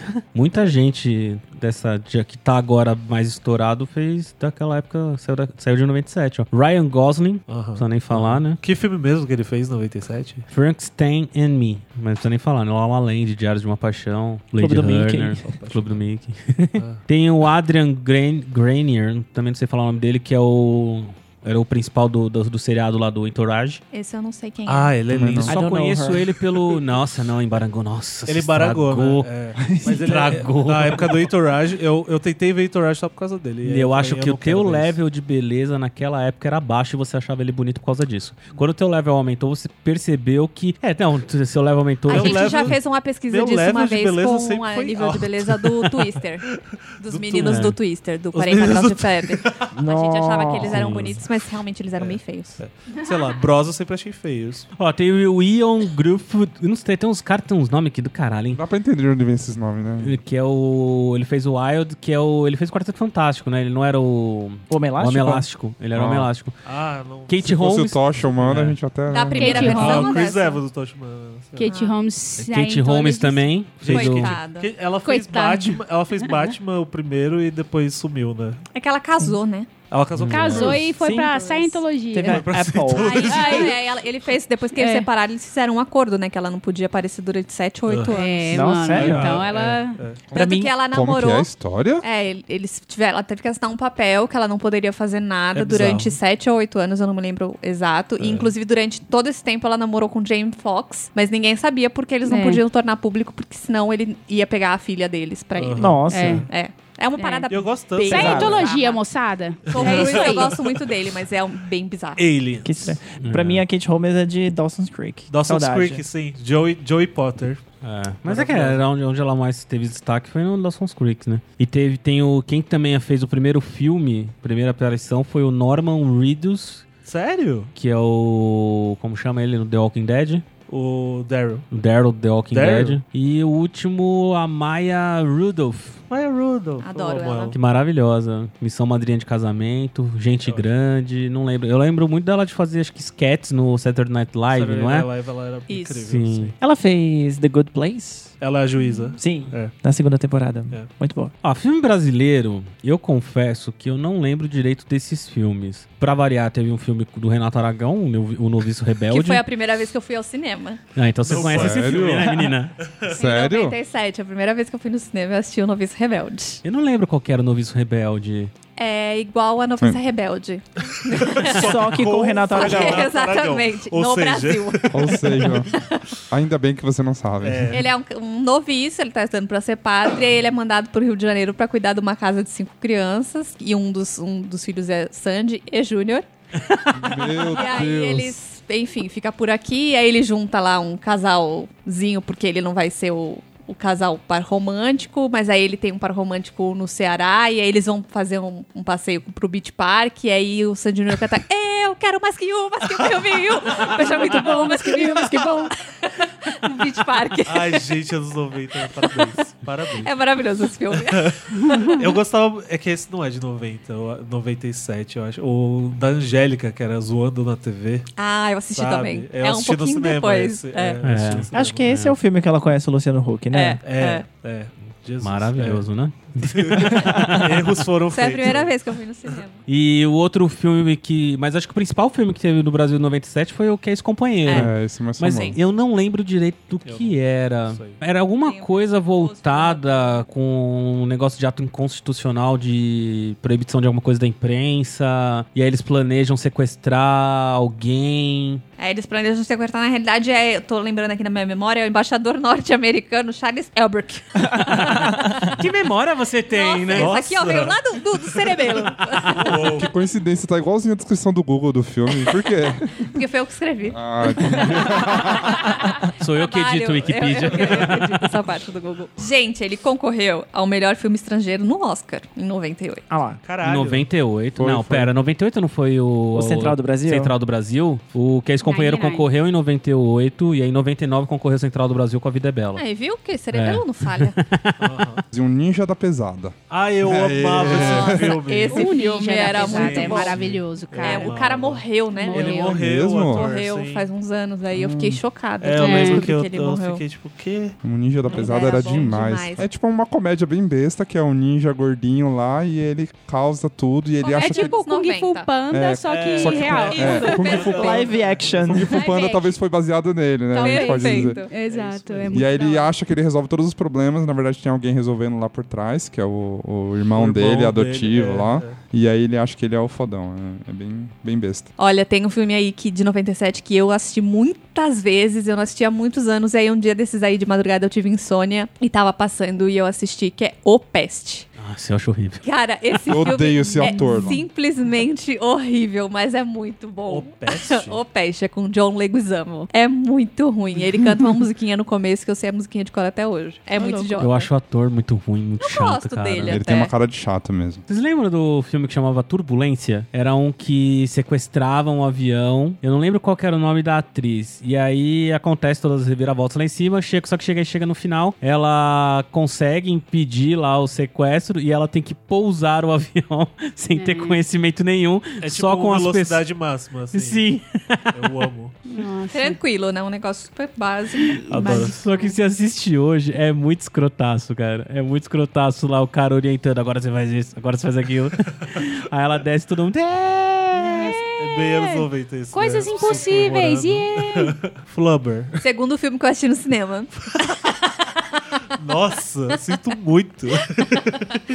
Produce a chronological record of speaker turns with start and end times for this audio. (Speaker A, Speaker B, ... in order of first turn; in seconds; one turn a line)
Speaker A: 0.3-8.6
Speaker B: 7.5-10.5
Speaker A: 10.5-23.8
Speaker C: 14.6-15.5
Speaker B: 15.4-16.0
Speaker B: 16.8-17.0
Speaker D: 23.9-24.9
Speaker B: 24.7-25.6
Speaker E: 25.1-25.6
Speaker C: 25.5-26.2
Speaker A: 25.5-31.3
Speaker B: 26.1-26.8
Speaker B: 28.3-35.0
Speaker C: 29.6-30.0
Speaker A: 33.6-42.8
Speaker D: 42.1-46.5
Speaker B: 42.1-47.8
Speaker D: 47.0-52.6
Speaker A: 47.4-47.8
Speaker B: 48.3-49.7
Speaker C: 49.7-50.9
Speaker A: 50.6-51.2
Speaker B: 52.0-54.7
Speaker A: 54.8-58.6
Speaker E: 58.5-60.2
Speaker A: 60.0-66.6
Speaker C: 64.7-65.5
Speaker E: 65.9-66.3
Speaker B: 66.6-67.5
Speaker A: 67.3-68.1
Speaker E: 67.4-69.8
Speaker B: 68.2-68.8
Speaker D: 69.1-70.6
Speaker F: 69.3-70.2
Speaker B: 69.5-71.7
Speaker F: 71.6-73.5
Speaker D: 71.7-72.0
Speaker A: 72.4-74.3
Speaker B: 73.8-78.7
Speaker D: 73.8-74.7
Speaker F: 75.0-75.8
Speaker D: 78.7-79.7
Speaker B: 79.9-81.0
Speaker A: 80.2-80.6
Speaker F: 80.3-82.4
Speaker C: 80.6-81.4
Speaker D: 81.1-88.7
Speaker B: 82.2-83.8
Speaker C: 82.2-83.3
Speaker F: 83.2-83.8
Speaker F: 84.8-85.1
Speaker B: 87.9-90.2
Speaker F: 88.1-90.0
Speaker C: 88.5-89.4
Speaker E: 90.3-92.0
Speaker D: 90.3-91.5
Speaker C: 90.4-90.7
Speaker D: 92.0-109.0
Speaker B: 95.5-96.2
Speaker B: 98.2-98.5
Speaker F: 102.2-102.6
Speaker B: 105.6-106.5
Speaker C: 105.8-106.4
Speaker F: 106.1-106.5
Speaker F: 107.2-110.6
Speaker B: 107.5-108.7
Speaker C: 108.1-108.6
Speaker B: 109.7-110.8
Speaker D: 109.7-112.2
Speaker B: 112.2-113.0
Speaker C: 112.6-116.0
Speaker A: 113.2-113.6
Speaker B: 115.3-117.6
Speaker A: 117.8-126.8
Speaker B: 118.2-118.8
Speaker B: 127.0-127.7
Speaker A: 127.8-130.4
Speaker B: 130.7-131.7
Speaker A: 131.7-136.0
Speaker B: 132.5-133.0
Speaker B: 136.1-137.6
Speaker D: 136.8-137.6
Speaker A: 137.5-145.1
Speaker B: 144.5-146.6
Speaker D: 145.7-146.1
Speaker A: 146.1-146.5
Speaker C: 146.6-148.3
Speaker B: 148.4-149.8
Speaker C: 149.2-151.3
Speaker A: 151.4-159.4
Speaker D: 159.1-160.8
Speaker A: 161.0-162.8
Speaker B: 161.2-163.2
Speaker E: 161.3-162.4
Speaker E: 163.1-163.8
Speaker D: 163.1-166.6
Speaker A: 166.6-168.5
Speaker D: 168.8-171.8
Speaker B: 171.1-175.7
Speaker C: 171.5-173.2
Speaker D: 172.5-176.0
Speaker E: 174.9-177.8
Speaker B: 177.4-177.9
Speaker D: 177.7-207.9
Speaker E: 186.9-188.4
Speaker B: 202.8-205.4
Speaker F: 205.3-205.7
Speaker B: 207.5-210.1
Speaker D: 208.9-209.3
Speaker D: 210.0-211.4
Speaker B: 210.9-218.1
Speaker F: 211.6-211.9
Speaker D: 218.2-221.0
Speaker B: 218.7-221.9
Speaker A: 221.0-222.2
Speaker C: 221.5-223.9
Speaker D: 223.5-224.2
Speaker B: 223.8-228.8
Speaker A: 225.2-227.7
Speaker D: 228.1-229.6
Speaker A: 229.7-248.6
Speaker D: 234.4-235.6
Speaker E: 234.5-235.6
Speaker B: 236.8-238.0
Speaker D: 238.4-240.3
Speaker D: 248.8-254.5
Speaker A: 254.5-257.2
Speaker D: 256.5-259.8
Speaker B: 256.9-259.9
Speaker E: 259.6-263.1
Speaker D: 263.0-273.1
Speaker E: 263.9-265.7
Speaker A: 266.2-268.3
Speaker C: 273.1-273.4
Speaker B: 273.4-274.1
Speaker A: 273.6-282.8
Speaker E: 274.6-275.1
Speaker C: 276.3-277.3
Speaker F: 278.6-279.3
Speaker D: 282.8-284.4
Speaker A: 283.5-284.9
Speaker B: 284.8-285.2
Speaker E: 285.3-288.4
Speaker B: 286.7-288.9
Speaker D: 287.6-290.4
Speaker F: 288.7-291.4
Speaker B: 289.5-294.1
Speaker D: 291.0-297.0
Speaker F: 292.2-292.8
Speaker E: 292.7-293.5
Speaker E: 294.7-295.2
Speaker B: 295.6-297.8
Speaker F: 295.8-296.3
Speaker E: 297.8-304.8
Speaker B: 298.3-298.9
Speaker D: 298.3-299.7
Speaker D: 304.2-305.5
Speaker F: 304.4-307.6
Speaker E: 305.7-307.9
Speaker B: 306.0-308.9
Speaker D: 306.7-308.1
Speaker C: 307.7-309.0
Speaker E: 308.7-311.4
Speaker D: 308.9-309.6
Speaker D: 310.5-311.5
Speaker F: 310.6-312.9
Speaker B: 311.7-312.5
Speaker E: 312.3-321.7
Speaker B: 317.1-318.8
Speaker D: 321.8-331.5
Speaker A: 331.6-332.4
Speaker D: 332.4-344.5
Speaker E: 333.1-334.4
Speaker F: 333.8-334.4
Speaker B: 337.1-338.0
Speaker F: 343.8-344.3
Speaker A: 344.2-346.6
Speaker D: 345.6-346.9
Speaker E: 346.4-347.8
Speaker A: 347.9-366.5
Speaker F: 363.9-364.4
Speaker B: 365.4-367.5
Speaker A: 367.1-368.3
Speaker B: 368.1-368.8
Speaker F: 368.9-369.6
Speaker D: 369.3-371.9
Speaker F: 371.2-372.4
Speaker B: 371.5-371.9
Speaker A: 371.7-381.1
Speaker B: 381.4-385.6
Speaker F: 382.5-384.6
Speaker D: 385.6-387.3
Speaker B: 388.8-391.4